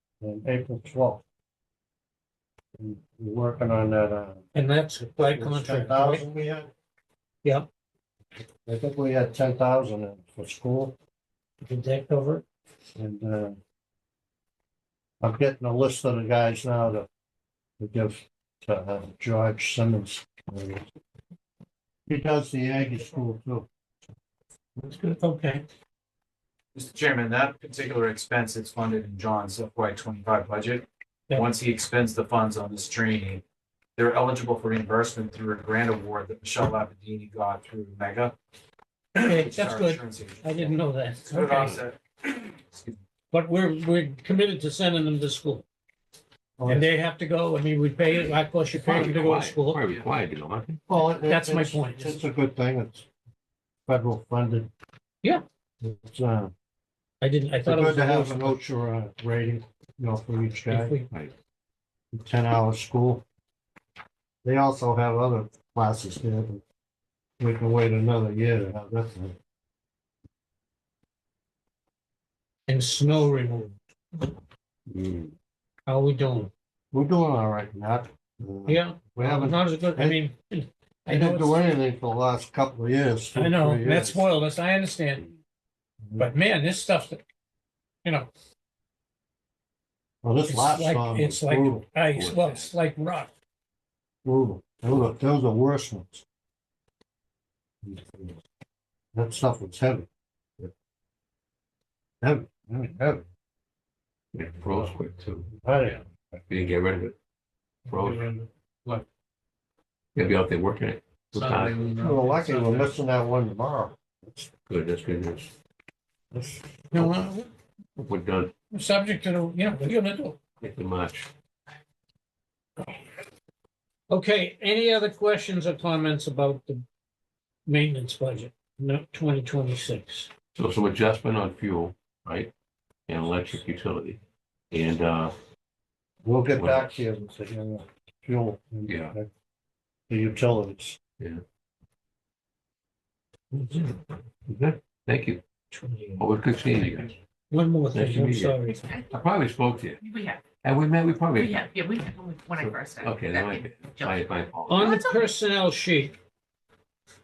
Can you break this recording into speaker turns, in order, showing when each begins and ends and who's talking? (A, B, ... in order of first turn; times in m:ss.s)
0:00.2-0:01.2 A
0:02.8-0:04.4 A
0:04.5-0:06.2 B
0:05.2-0:06.7 A
0:08.5-0:11.0 A
0:11.6-0:12.4 B
0:13.0-0:13.6 A
0:15.2-0:17.1 A
0:17.8-0:20.8 A
0:22.1-0:23.7 A
0:24.8-0:25.2 C
0:25.2-0:25.6 B
0:26.8-0:33.4 D
0:34.0-0:38.4 D
0:39.2-0:41.8 B
0:39.3-0:43.0 D
0:43.3-0:45.7 B
0:46.6-0:46.9 A
0:46.7-0:49.8 B
0:48.8-0:50.8 C
0:50.9-0:53.1 A
0:51.3-0:52.2 B
0:53.9-0:54.7 A
0:55.8-0:56.5 A
0:57.2-0:58.6 B
0:57.6-1:01.0 A
1:00.7-1:01.1 B
1:02.1-1:03.2 A
1:04.4-1:06.6 A
1:07.4-1:09.4 A
1:12.7-1:14.2 B
1:14.9-1:15.4 C
1:15.9-1:16.5 B
1:16.9-1:20.2 A
1:18.7-1:21.7 B
1:21.1-1:24.2 A
1:23.3-1:25.3 B
1:26.0-1:26.3 A
1:26.2-1:27.2 B
1:28.0-1:28.3 B
1:30.2-1:31.9 A
1:30.5-1:33.3 B
1:32.1-1:32.7 C
1:34.2-1:36.2 A
1:37.8-1:38.4 A
1:39.1-1:40.1 A
1:42.2-1:43.2 A
1:44.3-1:45.5 C
1:45.5-1:46.0 A
1:46.5-1:47.2 C
1:47.9-1:48.3 C
1:47.9-1:49.0 B
1:50.2-1:51.9 C
1:51.4-1:52.9 B
1:51.9-1:54.5 A
1:54.7-1:55.5 C
1:56.3-1:57.1 A
1:56.9-1:57.5 B
1:58.0-1:58.5 C
1:58.7-2:00.4 B
2:00.6-2:01.3 C
2:04.1-2:06.8 B
2:07.7-2:10.3 B
2:10.6-2:12.5 C
2:13.1-2:14.2 C
2:14.7-2:15.3 C
2:16.2-2:19.3 A
2:16.6-2:17.0 C
2:18.9-2:19.1 C
2:20.1-2:21.0 A
2:23.5-2:25.4 C
2:25.7-2:26.2 B
2:26.2-2:27.1 C
2:27.5-2:28.8 B
2:27.9-2:28.6 C
2:29.1-2:30.0 C
2:30.0-2:30.5 E
2:30.6-2:31.6 C
2:31.4-2:34.2 E
2:32.6-2:34.9 C
2:34.7-2:36.2 B
2:34.8-2:35.3 E